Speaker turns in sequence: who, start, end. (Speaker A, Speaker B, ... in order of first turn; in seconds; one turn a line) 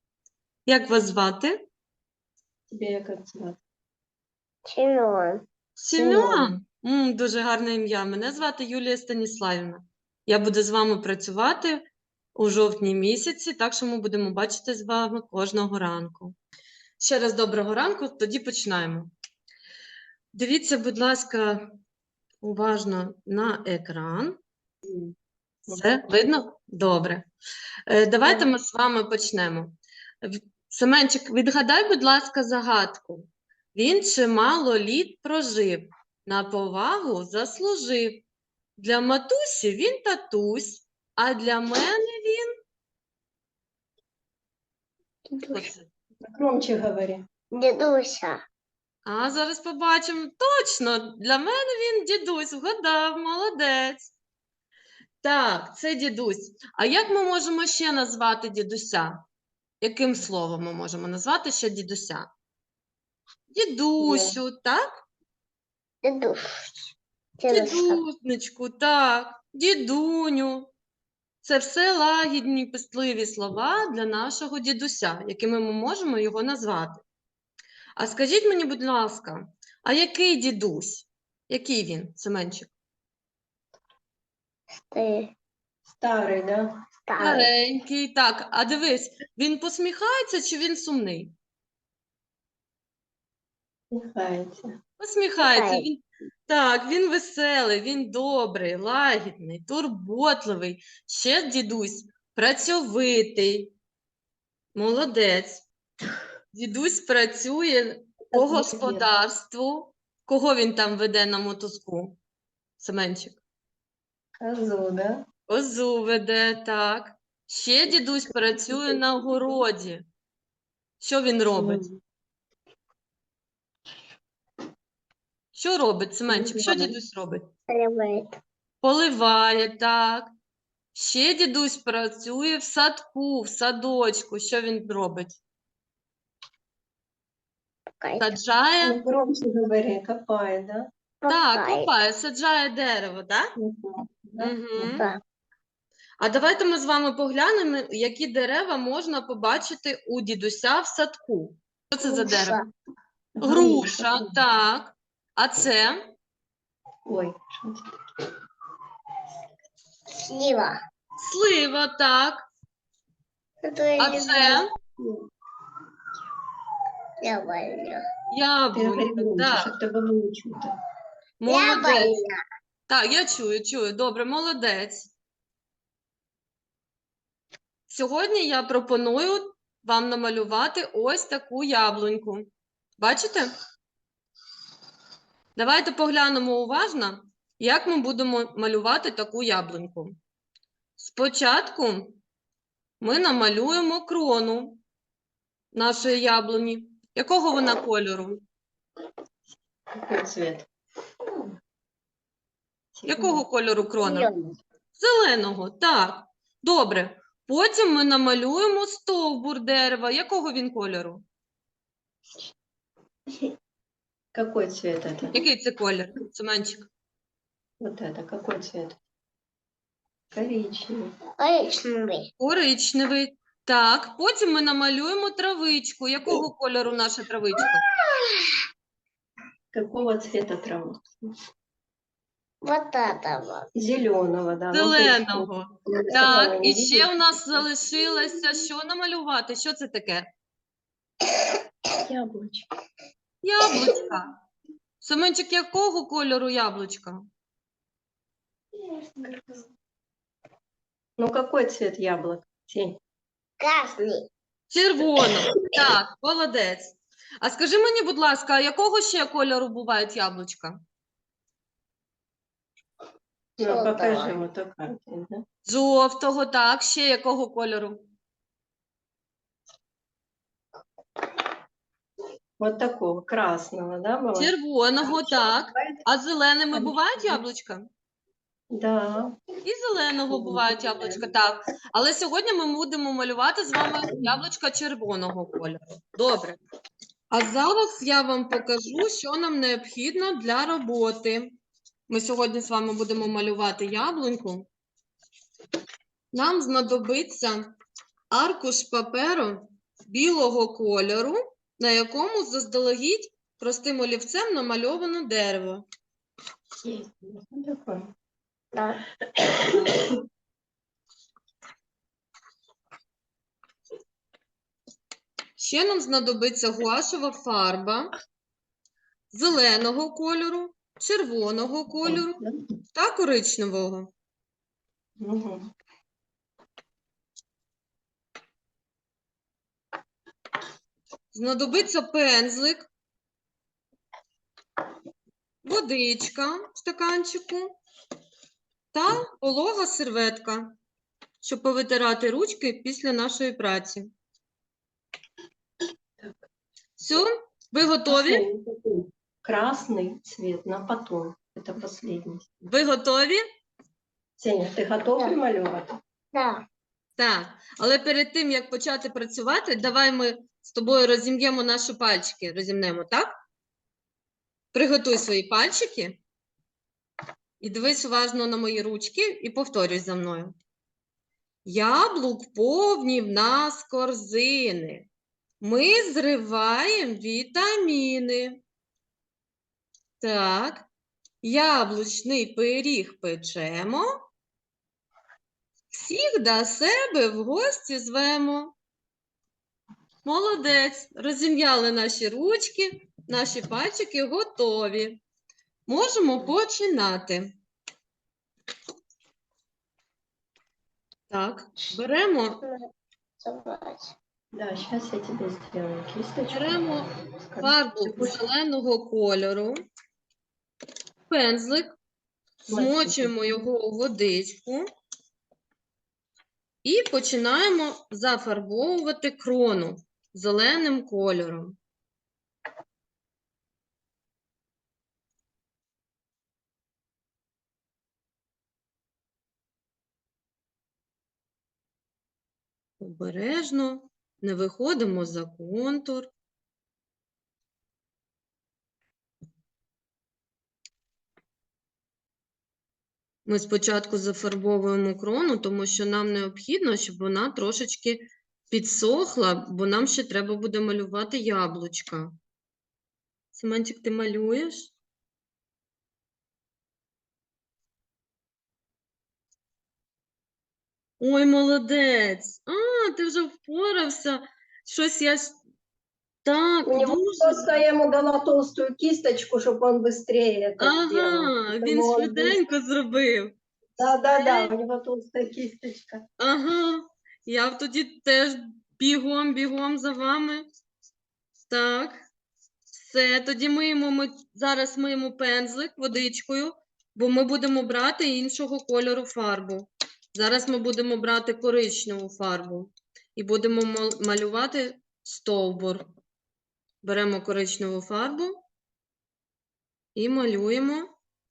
Speaker A: 0.7-1.6
Speaker B: 2.7-3.6
Speaker C: 4.7-5.4
Speaker A: 5.8-11.8
Speaker B: 5.9-6.6
Speaker A: 12.3-16.3
Speaker A: 17.0-19.1
Speaker A: 20.3-21.6
Speaker A: 22.4-24.4
Speaker B: 24.9-25.1
Speaker A: 25.7-27.3
Speaker A: 27.9-38.2
Speaker B: 28.2-28.5
Speaker A: 38.8-42.5
Speaker C: 45.3-45.7
Speaker A: 45.5-45.9
Speaker B: 46.2-47.2
Speaker C: 47.5-48.4
Speaker A: 49.0-54.1
Speaker A: 55.2-59.2
Speaker A: 59.8-62.3
Speaker A: 63.5-65.0
Speaker C: 64.0-64.3
Speaker C: 66.0-68.0
Speaker A: 67.5-70.7
Speaker A: 71.4-77.0
Speaker A: 78.0-82.7
Speaker C: 84.9-85.3
Speaker B: 85.9-86.7
Speaker C: 87.1-87.5
Speaker A: 87.2-91.3
Speaker B: 93.9-94.7
Speaker A: 95.0-103.7
Speaker C: 95.4-95.8
Speaker A: 104.7-105.6
Speaker A: 106.5-112.2
Speaker B: 108.3-109.0
Speaker A: 112.8-113.4
Speaker B: 114.4-115.2
Speaker A: 115.5-120.0
Speaker B: 118.3-119.0
Speaker A: 121.0-121.8
Speaker B: 121.5-122.0
Speaker A: 125.5-127.4
Speaker B: 126.3-126.9
Speaker C: 127.7-128.4
Speaker A: 128.8-130.3
Speaker A: 130.9-135.4
Speaker C: 138.0-138.3
Speaker A: 138.2-139.0
Speaker B: 138.8-140.9
Speaker C: 141.2-141.9
Speaker A: 141.3-143.5
Speaker B: 143.6-145.0
Speaker A: 144.4-145.1
Speaker C: 144.9-145.2
Speaker A: 146.2-152.6
Speaker C: 152.0-152.7
Speaker B: 153.3-154.4
Speaker A: 153.4-156.1
Speaker B: 157.1-157.9
Speaker C: 160.2-160.8
Speaker A: 161.2-162.4
Speaker C: 163.6-164.6
Speaker A: 164.0-164.7
Speaker B: 165.0-165.2
Speaker C: 167.2-168.0
Speaker A: 168.3-169.7
Speaker B: 168.7-170.7
Speaker A: 171.4-172.2
Speaker C: 171.5-172.4
Speaker A: 172.9-175.1
Speaker A: 177.9-183.5
Speaker A: 185.6-190.2
Speaker A: 191.0-192.2
Speaker A: 193.0-194.8
Speaker A: 195.7-198.4
Speaker B: 200.0-200.7
Speaker B: 202.9-203.4
Speaker A: 203.1-204.3
Speaker C: 204.0-204.6
Speaker A: 205.0-211.2
Speaker B: 214.3-215.4
Speaker A: 215.3-216.9
Speaker B: 217.8-219.0
Speaker B: 220.3-221.1
Speaker C: 221.4-222.3
Speaker A: 222.4-227.8
Speaker C: 228.1-228.6
Speaker B: 229.7-231.2
Speaker C: 232.6-233.7
Speaker B: 233.7-237.6
Speaker A: 234.7-240.3
Speaker B: 242.0-242.7
Speaker A: 243.4-244.3
Speaker A: 245.0-247.2
Speaker B: 248.8-249.7
Speaker B: 251.2-253.0
Speaker C: 253.6-254.3
Speaker A: 254.7-260.8
Speaker B: 263.6-265.4
Speaker C: 263.6-264.4
Speaker A: 265.6-268.0
Speaker B: 272.6-276.0
Speaker A: 274.4-277.9
Speaker B: 276.7-277.4
Speaker B: 278.7-279.4
Speaker A: 279.6-286.6
Speaker B: 280.3-281.3
Speaker A: 287.3-291.5
Speaker A: 292.1-294.7
Speaker A: 296.3-297.7
Speaker A: 298.3-305.8
Speaker B: 306.8-308.1
Speaker C: 308.7-309.0
Speaker A: 315.6-318.1
Speaker A: 319.3-322.4
Speaker B: 322.0-322.6
Speaker A: 322.9-324.1
Speaker B: 325.2-325.7
Speaker A: 331.3-332.9
Speaker A: 335.6-337.7
Speaker A: 338.9-340.7
Speaker A: 341.4-344.1
Speaker B: 346.2-346.5
Speaker A: 347.0-348.4
Speaker B: 348.1-352.4
Speaker A: 352.6-353.4
Speaker B: 354.4-356.0
Speaker C: 356.3-356.6
Speaker A: 357.2-363.3
Speaker A: 364.7-366.2
Speaker A: 367.6-370.6
Speaker A: 371.6-375.1
Speaker A: 375.6-378.6
Speaker A: 380.2-380.9
Speaker A: 381.4-384.1
Speaker A: 385.9-388.7
Speaker A: 390.2-395.2
Speaker A: 395.9-397.5
Speaker A: 401.3-402.6
Speaker C: 402.6-402.9
Speaker C: 403.4-404.1
Speaker B: 404.5-408.4
Speaker A: 406.5-407.1
Speaker A: 407.6-409.8
Speaker A: 411.3-411.9
Speaker A: 412.7-414.9
Speaker B: 412.7-413.3
Speaker A: 416.8-421.8
Speaker A: 433.0-436.3
Speaker A: 443.4-452.3
Speaker A: 453.5-454.9
Speaker A: 461.2-465.6
Speaker A: 466.4-467.8
Speaker B: 466.8-472.6
Speaker A: 470.8-473.5
Speaker B: 474.0-476.2
Speaker A: 474.3-474.7
Speaker A: 476.4-480.6
Speaker A: 481.7-482.2
Speaker A: 482.9-496.1
Speaker A: 497.0-498.6
Speaker A: 500.1-501.1